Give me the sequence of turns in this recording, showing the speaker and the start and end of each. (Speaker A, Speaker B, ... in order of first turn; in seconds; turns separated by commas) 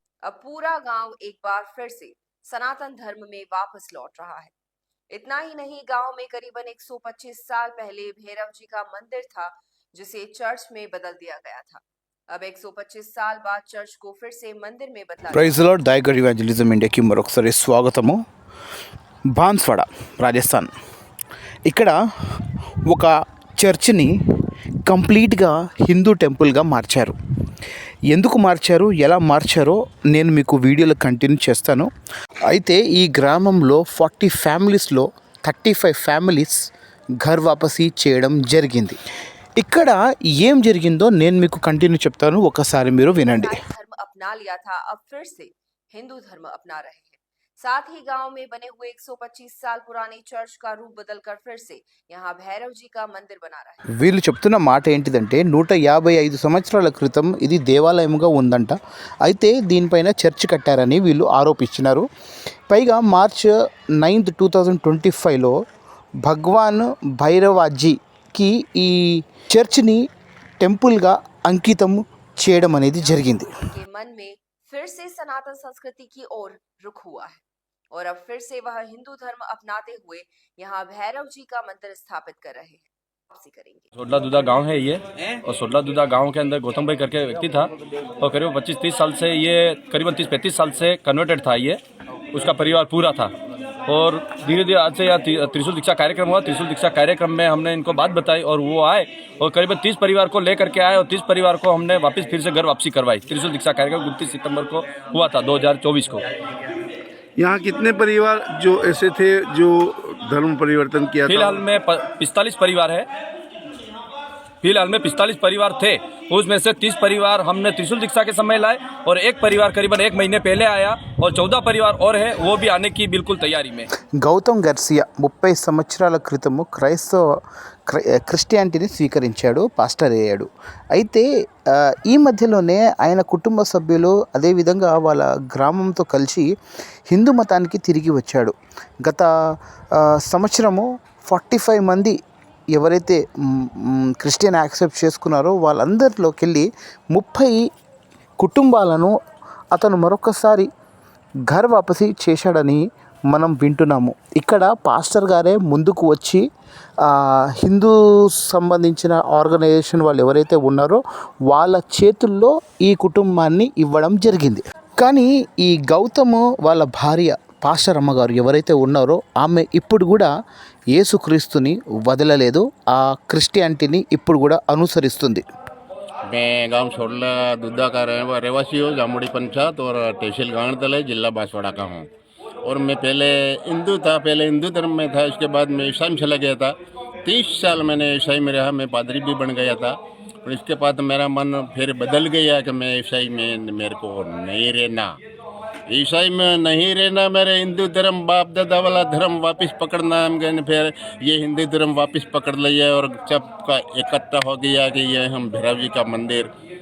Speaker A: 0.2-4.5, Speaker A: 5.1-15.5, Speaker B: 15.3-18.2, Speaker B: 19.4-20.7, Speaker B: 21.7-24.1, Speaker B: 24.9-27.1, Speaker B: 28.1-31.9, Speaker B: 32.5-36.5, Speaker B: 37.2-39.0, Speaker B: 39.6-43.6, Speaker A: 43.2-53.8, Speaker B: 54.0-62.1, Speaker B: 62.7-65.5, Speaker B: 66.2-70.0, Speaker B: 70.6-73.5, Speaker A: 73.0-83.9, Speaker C: 84.0-91.8, Speaker C: 92.3-93.3, Speaker C: 93.9-106.2, Speaker D: 107.4-111.6, Speaker C: 111.2-113.1, Speaker C: 114.6-123.9, Speaker B: 124.2-136.5, Speaker B: 137.1-139.3, Speaker B: 139.9-142.2, Speaker B: 142.7-147.6, Speaker B: 148.4-149.2, Speaker B: 149.7-150.7, Speaker B: 151.5-156.4, Speaker B: 157.0-170.3, Speaker B: 170.9-175.4, Speaker E: 176.3-182.1, Speaker E: 182.6-186.7, Speaker E: 187.2-195.1, Speaker E: 195.9-206.5